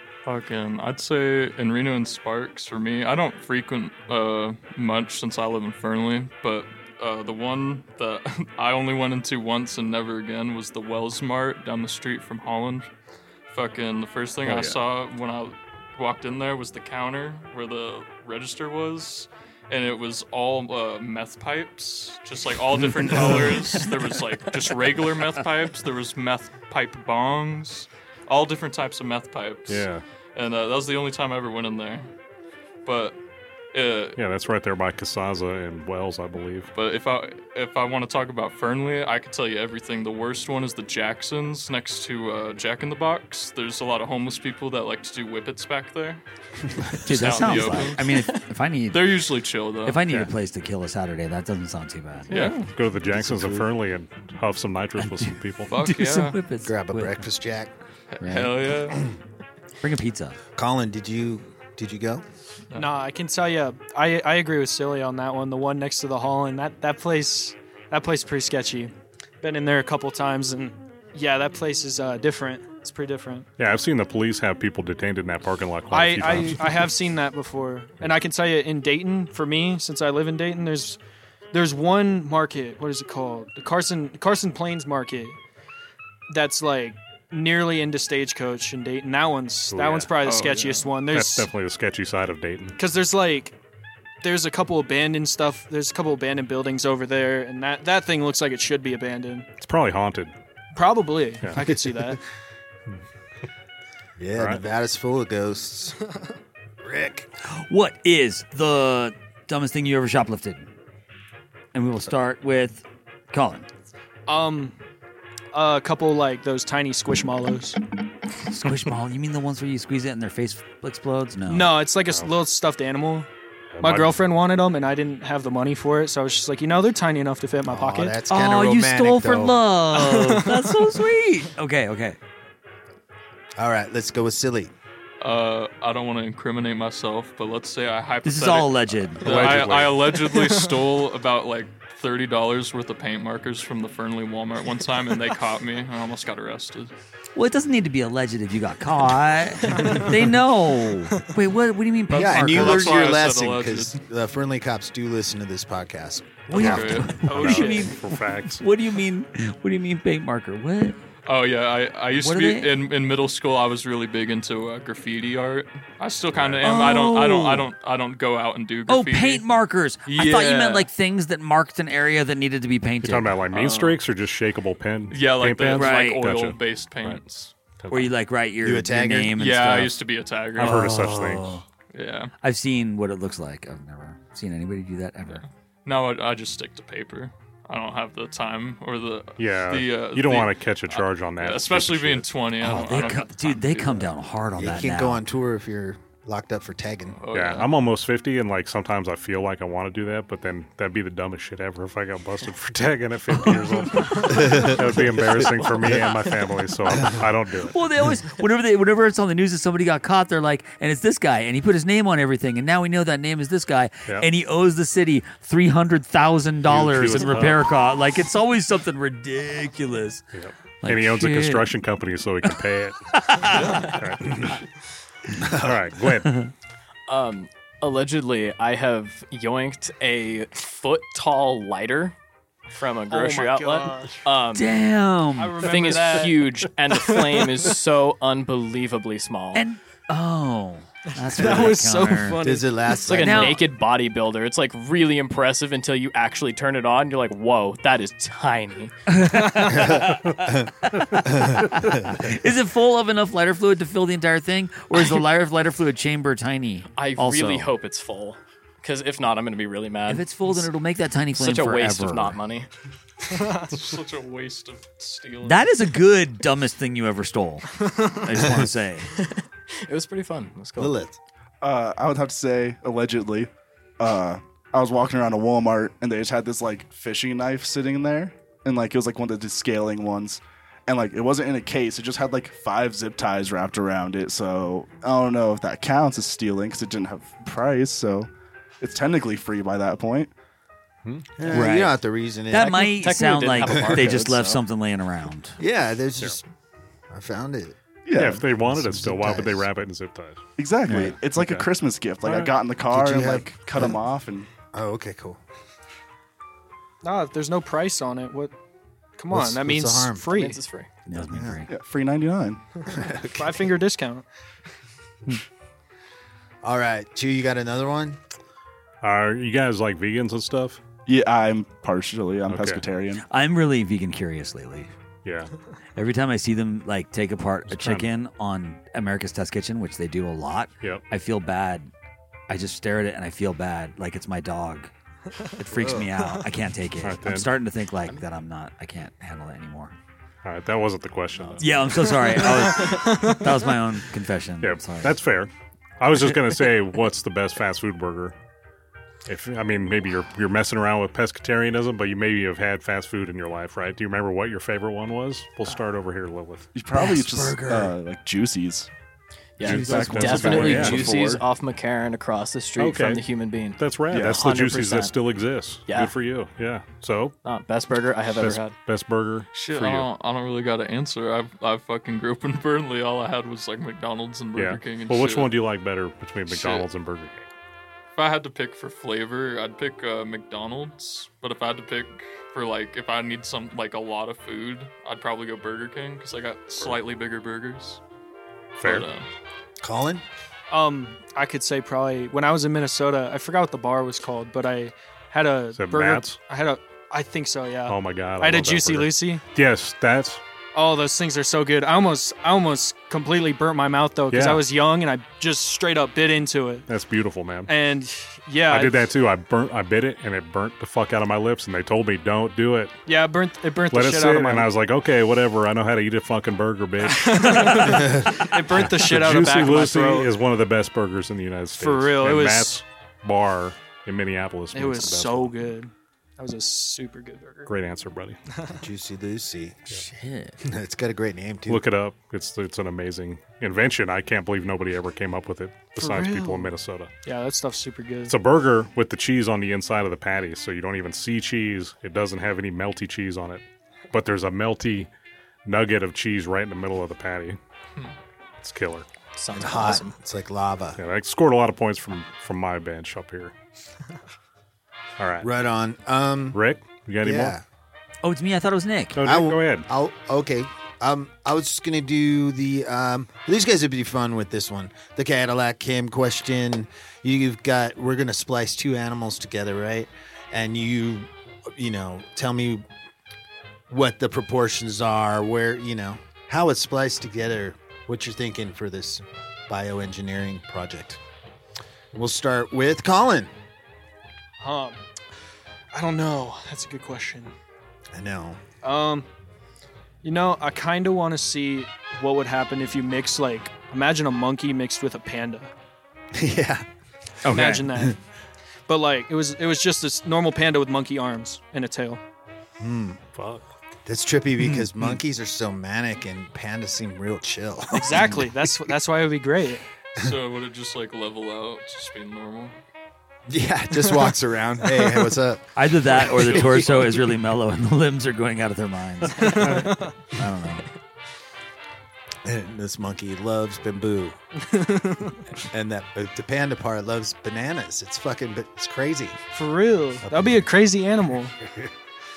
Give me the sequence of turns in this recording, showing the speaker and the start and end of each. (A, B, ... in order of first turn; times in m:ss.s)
0:00.2-0:12.9 A
0:13.5-0:32.1 A
0:14.4-0:14.8 B
0:29.7-0:30.0 B
0:32.8-0:33.2 A
0:33.7-0:34.2 A
0:34.2-0:36.7 B
0:36.7-0:46.2 A
0:47.0-0:50.0 A
0:47.0-0:49.2 C
0:49.8-0:52.4 C
0:52.3-0:52.6 A
0:52.3-0:55.7 B
0:53.2-0:53.6 D
0:55.0-0:57.2 C
0:55.7-0:56.4 A
0:56.6-0:57.7 D
0:58.1-0:59.0 A
0:58.2-0:58.7 C
0:59.8-1:00.4 C
1:00.6-1:02.2 D
1:02.7-1:13.5 E
1:13.6-1:16.9 B
1:15.9-1:21.0 E
1:21.5-1:25.4 E
1:26.3-1:31.5 E
1:29.7-1:30.1 B
1:30.2-1:30.9 A
1:31.1-1:32.8 B
1:32.8-1:33.5 E
1:34.2-1:39.5 E
1:39.6-1:40.3 B
1:40.7-1:42.2 E
1:41.6-1:41.9 D
1:44.2-1:46.0 D
1:44.4-1:44.6 B
1:46.8-1:47.3 D
1:47.4-1:50.7 C
1:51.7-1:53.7 C
1:54.3-1:54.8 E
1:55.5-1:57.8 E
1:58.4-2:01.8 C
2:01.5-2:03.3 E
2:03.7-2:04.2 B
2:03.8-2:08.1 E
2:07.7-2:09.6 D
2:08.3-2:12.2 C
2:09.9-2:10.7 E
2:13.6-2:14.7 D
2:15.2-2:26.9 A
2:18.2-2:19.6 C
2:19.2-2:20.2 B
2:27.3-2:33.1 C
2:32.1-2:36.6 D
2:32.2-2:34.0 A
2:36.5-2:41.0 C
2:36.5-2:38.6 B
2:36.5-2:37.8 A
2:37.3-2:37.8 E
2:41.2-2:49.4 A
2:42.1-2:42.7 C
2:46.3-2:46.7 B
2:46.6-2:47.7 C
2:48.9-2:53.4 C
2:50.0-2:50.9 A
2:53.0-2:57.2 B
2:53.5-2:54.0 A
2:55.1-2:57.5 A
2:55.7-2:56.2 C
2:57.8-2:58.1 B
2:57.9-2:59.9 C
2:58.6-2:59.4 D
2:59.3-3:00.8 A
3:00.6-3:01.6 B
3:00.6-3:01.6 C
3:01.9-3:02.3 A
3:02.4-3:05.4 C
3:05.3-3:14.1 A
3:09.4-3:12.3 B
3:12.6-3:15.2 C
3:14.6-3:17.2 D
3:17.2-3:17.7 A
3:17.3-3:27.7 B
3:24.3-3:24.8 D
3:27.6-3:40.2 C
3:36.6-3:37.7 B
3:40.3-3:44.6 B
3:40.8-3:41.7 C
3:42.4-3:43.9 C
3:43.5-3:43.9 A
3:45.4-3:45.8 D
3:45.6-3:46.4 B
3:47.1-3:52.1 F
3:52.7-3:54.7 F
3:53.1-3:54.2 E
3:54.5-3:56.2 C
3:55.4-3:56.4 E
3:55.6-3:59.6 F
3:59.5-4:02.5 C
4:01.2-4:02.7 E
4:02.4-4:03.6 D
4:03.0-4:08.9 F
4:03.1-4:03.6 C
4:09.1-4:17.7 C
4:09.8-4:10.7 D
4:11.3-4:11.6 D
4:16.9-4:20.3 F
4:20.1-4:22.4 C
4:21.3-4:22.7 F
4:23.4-4:25.7 A
4:25.4-4:29.1 C
4:29.1-4:31.0 F
4:30.8-4:31.2 D
4:31.6-4:48.3 G
4:48.8-4:50.3 G
4:51.1-4:53.0 D
4:51.5-4:52.0 C
4:52.5-4:55.6 C
4:52.5-4:54.6 F
4:53.7-4:54.1 D
4:55.6-4:56.4 D
4:57.1-4:57.8 D
4:58.0-4:58.4 G
4:58.1-5:01.6 B
4:58.6-4:59.6 D
5:00.6-5:04.5 G
5:02.2-5:02.5 B
5:02.9-5:04.0 D
5:04.7-5:05.4 D
5:07.0-5:08.5 E
5:09.2-5:10.6 E
5:09.3-5:10.3 D
5:10.3-5:10.9 F
5:11.0-5:11.7 C
5:11.1-5:11.6 D
5:11.7-5:12.6 G
5:12.9-5:13.6 D
5:13.4-5:14.2 E
5:16.6-5:18.2 D
5:19.0-5:20.8 B
5:21.0-5:23.2 G
5:22.5-5:22.8 B
5:23.3-5:24.9 C
5:25.2-5:25.5 B
5:26.0-5:31.9 C
5:27.7-5:28.1 B
5:32.5-5:34.9 C
5:35.6-5:39.9 C
5:37.0-5:37.5 B
5:40.4-5:42.0 B
5:41.6-5:45.2 C
5:42.4-5:43.4 E
5:44.6-5:48.3 B
5:49.2-5:56.7 B
5:56.7-5:58.9 G
5:56.9-5:57.9 C
5:59.6-6:05.1 F
5:59.6-6:01.4 G
5:59.6-6:01.1 B
5:59.7-6:01.4 C
6:02.8-6:03.2 B
6:03.8-6:07.3 B
6:04.1-6:04.4 G
6:05.9-6:06.1 F
6:07.4-6:08.8 F
6:08.4-6:10.1 B
6:09.5-6:15.5 A
6:14.5-6:17.5 B
6:16.5-6:16.8 A
6:18.2-6:28.0 A
6:28.8-6:29.3 A
6:28.8-6:29.1 B
6:29.8-6:30.2 D
6:30.7-6:39.4 E
6:35.8-6:36.4 B
6:37.9-6:40.4 B
6:40.7-6:46.9 E
6:44.3-6:44.6 B
6:46.9-6:47.7 B
6:47.7-6:49.0 E
6:48.7-6:52.9 B
6:53.1-6:54.7 E
6:53.9-7:05.5 B
6:57.1-7:00.3 E
7:01.8-7:02.8 E
7:04.7-7:07.7 E
7:07.7-7:08.4 B
7:08.7-7:09.8 D
7:09.9-7:10.6 C
7:10.6-7:11.8 D
7:11.7-7:17.1 B
7:16.0-7:16.7 E
7:17.2-7:18.3 E
7:18.3-7:25.1 B
7:25.6-7:27.6 B
7:28.6-7:29.0 B
7:29.4-7:30.2 F
7:29.5-7:31.0 D
7:31.0-7:33.5 B
7:35.2-7:35.5 B
7:35.4-7:36.6 D
7:36.5-7:37.6 B
7:37.2-7:37.6 D
7:38.2-7:39.2 C
7:39.1-7:39.9 B
7:39.2-7:52.8 D
7:53.9-8:01.2 D
8:02.1-8:03.5 D
8:04.6-8:05.0 E
8:05.9-8:07.5 E
8:08.1-8:08.6 D
8:08.8-8:09.3 E
8:10.2-8:15.7 E
8:16.3-8:16.8 D
8:17.4-8:17.9 C
8:17.5-8:18.2 E
8:18.9-8:22.2 E
8:22.8-8:23.2 D
8:23.3-8:23.6 B
8:24.0-8:28.6 D
8:24.6-8:25.2 C
8:27.9-8:29.8 E
8:30.2-8:32.8 A
8:33.5-8:35.6 D
8:35.8-8:40.9 C
8:36.2-8:37.2 A
8:39.4-8:40.1 E
8:42.4-8:44.4 D
8:44.6-8:45.4 E
8:45.6-8:49.4 D
8:49.5-8:51.5 E
8:50.2-8:50.6 D